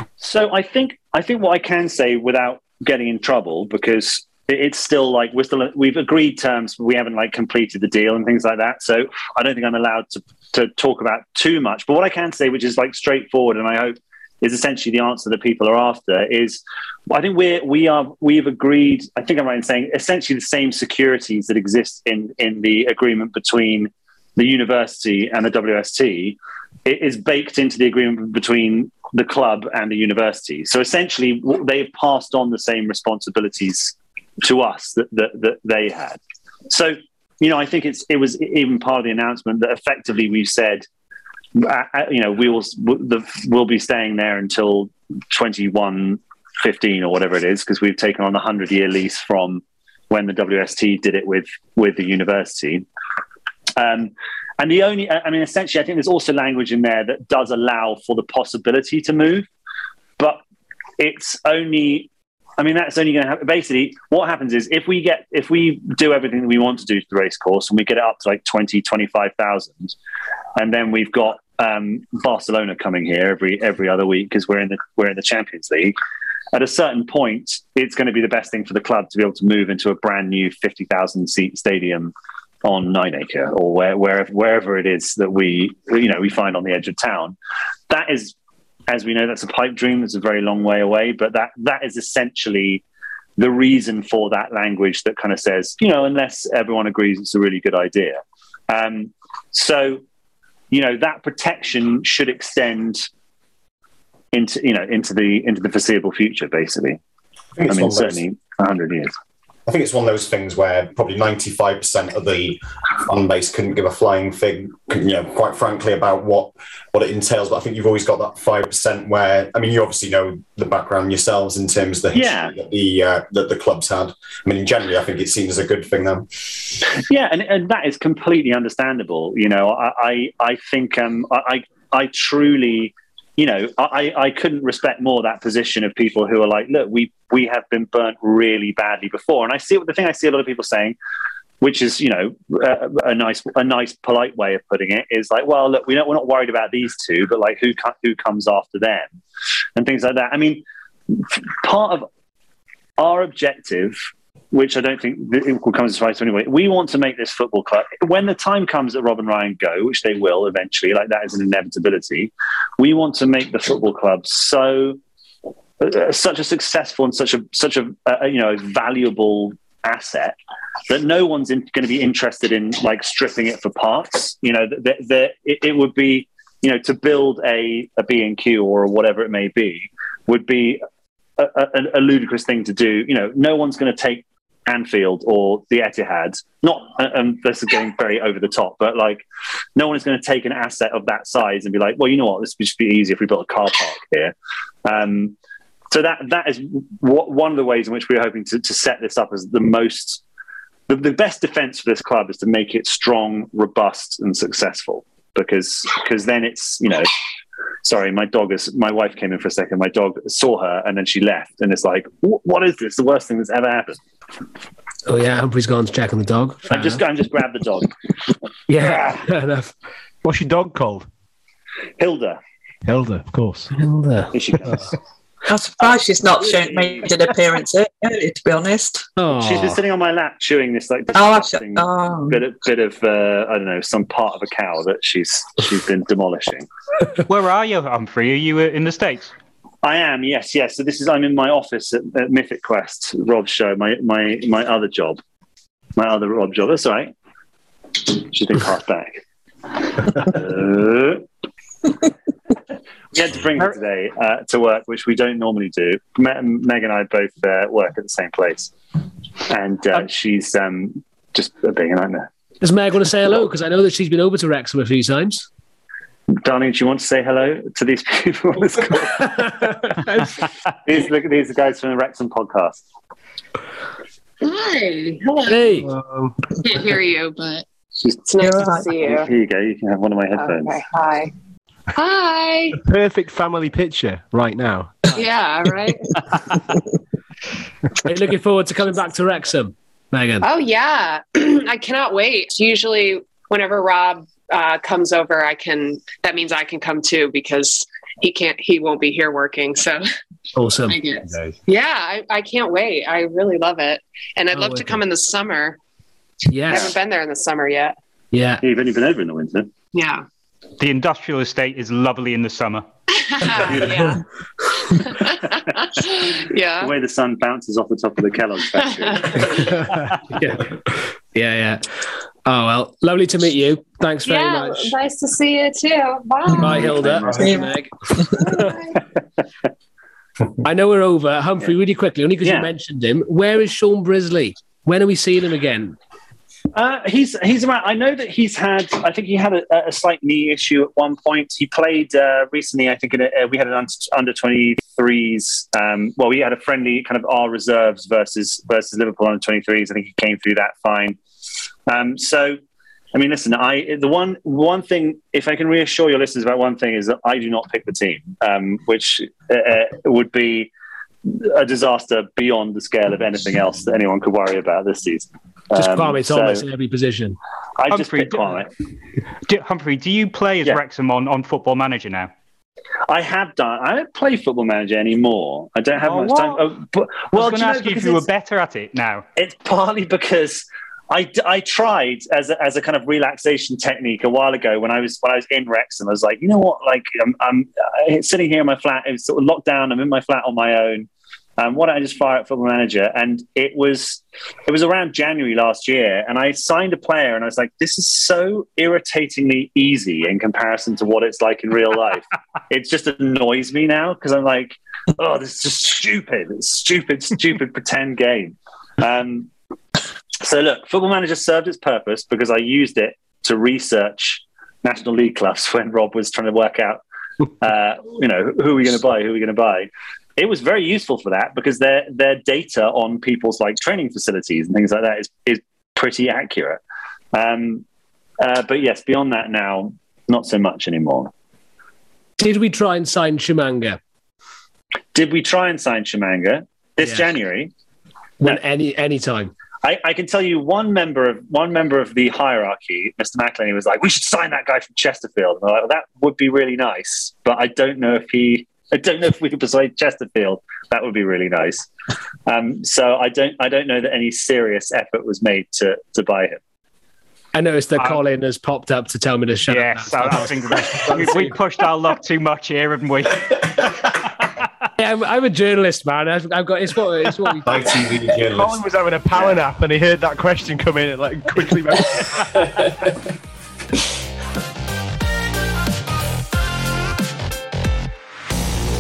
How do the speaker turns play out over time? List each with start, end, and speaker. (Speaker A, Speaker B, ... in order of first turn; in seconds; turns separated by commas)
Speaker A: 0.2-40.9, Speaker A: 41.5-52.9, Speaker A: 53.8-59.5, Speaker A: 61.0-70.0, Speaker A: 70.6-76.0, Speaker A: 76.5-87.4, Speaker A: 87.9-88.3, Speaker A: 88.9-92.8, Speaker A: 93.4-100.0, Speaker A: 100.7-103.1, Speaker A: 104.3-107.0, Speaker B: 107.5-108.2, Speaker A: 107.7-109.1, Speaker B: 109.7-126.3, Speaker A: 122.1-122.5, Speaker A: 127.0-141.0, Speaker A: 141.6-149.1, Speaker A: 149.8-152.1, Speaker A: 153.0-165.0, Speaker A: 165.8-170.4, Speaker A: 170.9-180.8, Speaker A: 181.4-189.2, Speaker A: 189.8-194.3, Speaker A: 194.8-195.4, Speaker A: 195.9-200.2, Speaker A: 200.9-207.1, Speaker A: 207.8-214.0, Speaker C: 215.1-217.0, Speaker A: 216.7-217.9, Speaker C: 218.7-219.7, Speaker A: 218.8-219.1, Speaker D: 220.2-221.1, Speaker A: 222.0-222.4, Speaker D: 222.8-223.7, Speaker C: 223.7-224.9, Speaker A: 224.3-224.8, Speaker E: 225.5-229.1, Speaker A: 226.4-227.1, Speaker C: 229.2-229.8, Speaker A: 229.3-236.7, Speaker E: 231.1-232.4, Speaker F: 237.3-239.3, Speaker A: 239.8-245.2, Speaker A: 246.0-247.1, Speaker A: 248.0-249.2, Speaker A: 249.8-251.2, Speaker A: 253.1-258.7, Speaker A: 259.5-262.3, Speaker C: 262.6-265.5, Speaker A: 266.4-269.5, Speaker C: 269.2-270.3, Speaker A: 270.9-272.8, Speaker G: 274.4-275.8, Speaker C: 275.5-275.9, Speaker D: 275.8-276.4, Speaker G: 276.6-277.7, Speaker A: 278.0-278.3, Speaker G: 278.3-279.3, Speaker E: 278.4-278.9, Speaker A: 278.9-280.8, Speaker G: 280.4-281.3, Speaker G: 281.9-282.8, Speaker D: 282.8-285.2, Speaker G: 285.1-286.1, Speaker C: 288.0-290.5, Speaker G: 290.4-300.1, Speaker C: 300.5-301.0, Speaker G: 300.9-305.8, Speaker D: 301.3-301.6, Speaker C: 304.5-305.0, Speaker C: 306.5-306.9, Speaker G: 306.7-307.9, Speaker C: 308.3-308.6, Speaker A: 308.6-309.7, Speaker G: 309.9-310.3, Speaker F: 310.8-312.9, Speaker G: 313.3-314.2, Speaker G: 315.0-316.9, Speaker A: 316.8-319.8, Speaker G: 318.8-319.2, Speaker C: 319.5-320.8, Speaker C: 321.3-321.9, Speaker C: 322.4-324.9, Speaker G: 324.2-327.7, Speaker C: 326.6-328.6, Speaker E: 327.4-327.6, Speaker G: 328.3-329.0, Speaker C: 330.6-336.0, Speaker A: 332.4-332.7, Speaker A: 336.7-351.2, Speaker A: 351.9-352.6, Speaker A: 353.1-360.7, Speaker A: 361.2-366.6, Speaker C: 365.8-367.4, Speaker A: 367.8-368.7, Speaker F: 367.9-368.7, Speaker F: 369.5-372.3, Speaker A: 373.1-378.3, Speaker F: 376.0-376.8, Speaker F: 377.3-379.2, Speaker A: 379.4-409.5, Speaker A: 410.4-417.0, Speaker A: 417.6-426.8, Speaker A: 427.3-427.9, Speaker A: 428.4-431.3, Speaker C: 432.4-434.0, Speaker A: 435.1-437.7, Speaker C: 437.0-437.3, Speaker C: 438.4-439.5, Speaker A: 439.8-451.9, Speaker A: 452.5-456.6, Speaker C: 457.5-461.4, Speaker F: 458.0-458.2, Speaker F: 459.7-464.5, Speaker D: 460.9-461.5, Speaker C: 465.0-467.8, Speaker B: 467.6-468.8, Speaker D: 468.4-473.1